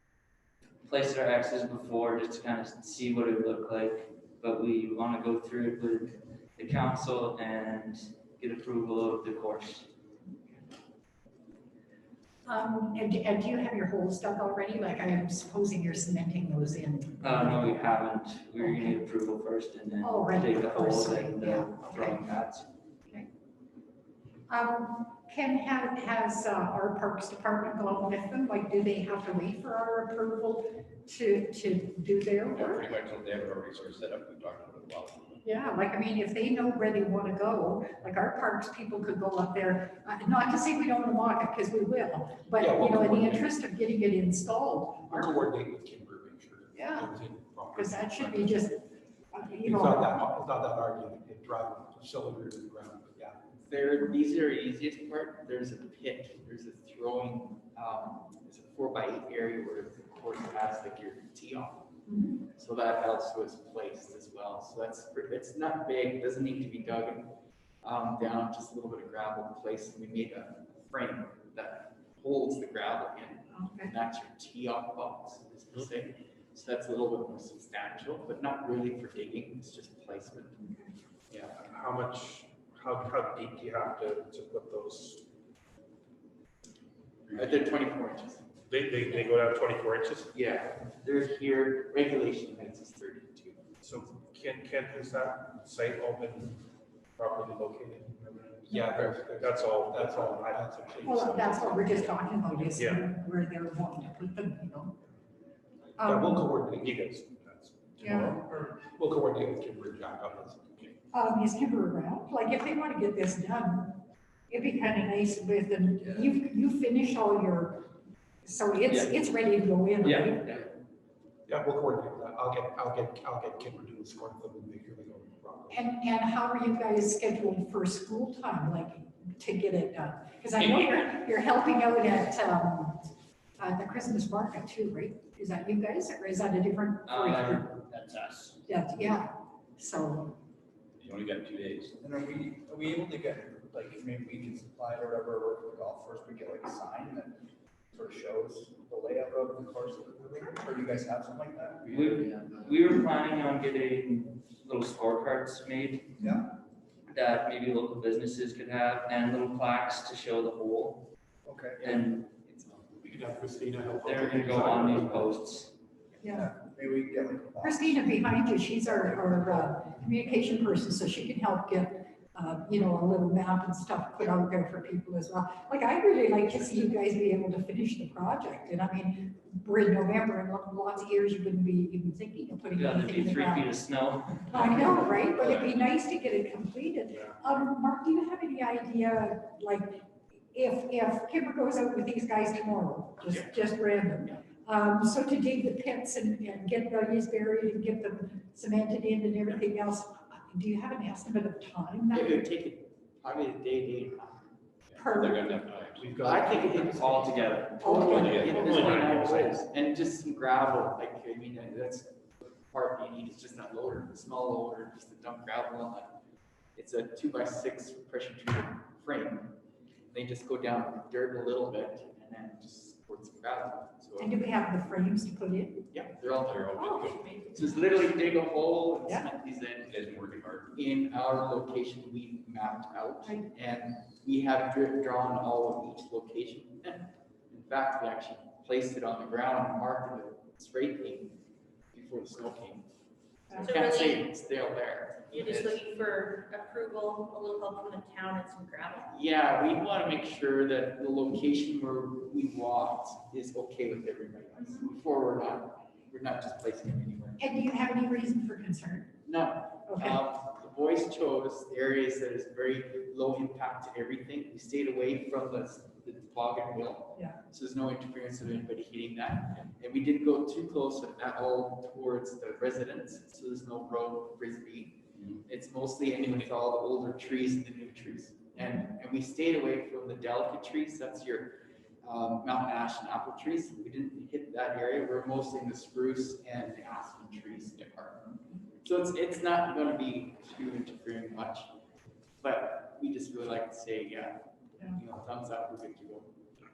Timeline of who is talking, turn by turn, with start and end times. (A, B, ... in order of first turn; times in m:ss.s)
0:00.8-0:09.9 A
0:12.4-0:17.9 B
0:17.2-0:22.7 A
0:18.6-0:19.0 B
0:20.0-0:22.3 B
0:24.5-0:32.9 B
0:32.5-0:35.4 C
0:35.4-0:45.4 B
0:42.6-0:43.5 D
0:45.1-0:48.4 D
0:46.7-0:47.1 B
0:47.7-0:50.2 B
0:49.7-0:53.4 D
0:53.6-1:01.9 E
1:02.1-1:02.4 B
1:02.5-1:07.3 E
1:07.8-1:20.6 E
1:13.5-1:13.9 B
1:20.6-1:20.9 B
1:21.3-1:21.6 E
1:21.6-1:25.2 F
1:27.3-1:28.4 E
1:28.7-1:30.3 F
1:30.3-1:33.6 E
1:33.8-1:36.6 F
1:37.2-1:41.9 F
1:38.4-1:41.7 D
1:38.7-1:39.1 B
1:41.0-1:45.0 B
1:46.0-1:46.6 B
1:46.0-1:50.7 D
1:46.8-1:47.1 F
1:48.0-1:48.4 B
1:51.1-1:54.0 B
1:54.5-1:57.9 B
1:58.4-2:00.6 B
2:00.0-2:00.7 A
2:01.5-2:05.7 F
2:01.6-2:05.7 D
2:05.7-2:17.7 B
2:17.1-2:18.6 A
2:18.7-2:20.4 B
2:21.0-2:22.0 C
2:22.0-2:27.4 G
2:27.9-2:32.0 G
2:31.9-2:36.2 A
2:32.0-2:32.3 C
2:37.1-2:41.1 A
2:41.4-2:41.8 G
2:41.8-2:43.2 E
2:41.8-2:42.3 A
2:43.0-2:45.2 F
2:44.0-2:45.7 A
2:44.1-2:44.6 E
2:46.2-2:46.5 B
2:46.4-2:47.7 G
2:47.6-3:03.7 B
3:02.7-3:05.1 A
3:04.5-3:22.5 B
3:22.1-3:24.5 E
3:24.9-3:26.2 C
3:24.9-3:25.8 B
3:26.0-3:26.5 F
3:26.1-3:36.2 E
3:26.4-3:28.3 A
3:27.8-3:28.8 B
3:27.9-3:28.6 C
3:28.5-3:29.5 F
3:36.8-3:39.5 E
3:40.1-3:44.4 E
3:44.2-3:45.9 B
3:45.9-3:50.1 E
3:46.4-3:47.2 C
3:46.8-3:48.0 H
3:49.8-3:50.8 C
3:50.7-4:01.4 E
4:01.9-4:02.9 E
4:03.5-4:03.8 B
4:03.5-4:05.9 E
4:03.6-4:04.4 H
4:05.3-4:09.1 H
4:09.1-4:17.6 E
4:14.6-4:14.9 H
4:17.4-4:19.1 B
4:19.3-4:48.3 E
4:19.9-4:20.2 B
4:48.8-4:51.7 E
4:52.4-4:56.3 E